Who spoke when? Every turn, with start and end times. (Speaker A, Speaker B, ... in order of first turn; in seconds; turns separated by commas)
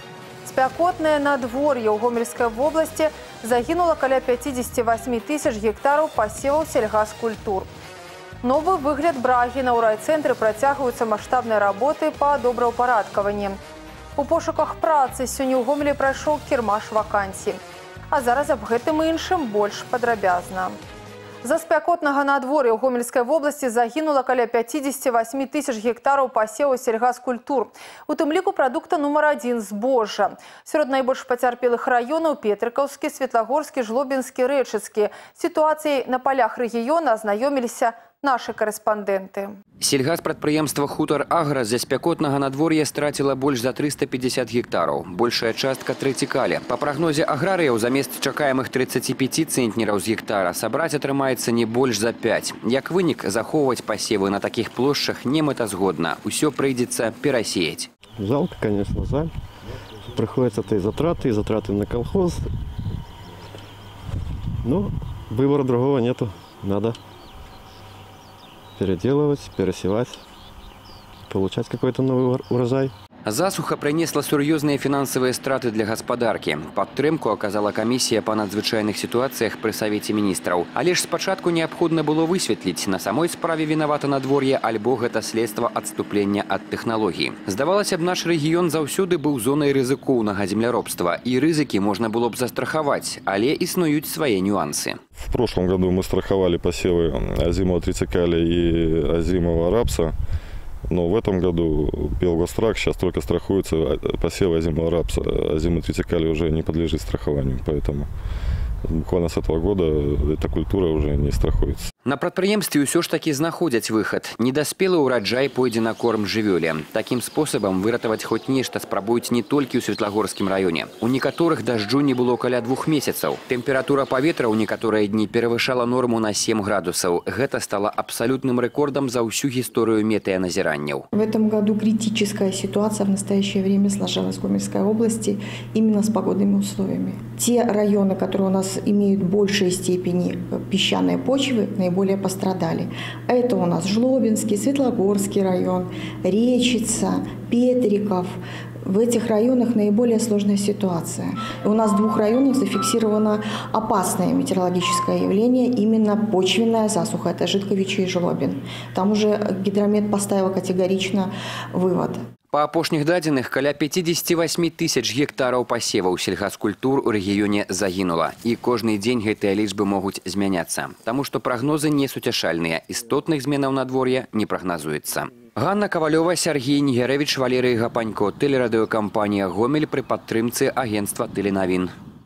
Speaker A: 0.4-7.7, Speaker A: 8.4-13.6, Speaker A: 14.2-20.8, Speaker A: 21.4-39.6, Speaker B: 39.8-57.9, Speaker C: 58.2-59.3, Speaker C: 60.1-62.4, Speaker C: 64.6-67.0, Speaker C: 68.8-70.2, Speaker C: 71.3-72.9, Speaker B: 73.3-95.0, Speaker D: 95.2-100.2, Speaker D: 100.9-108.1, Speaker D: 108.9-111.9, Speaker B: 112.0-131.1, Speaker E: 131.3-135.3, Speaker E: 135.8-148.3, Speaker E: 148.9-161.2, Speaker B: 162.5-181.9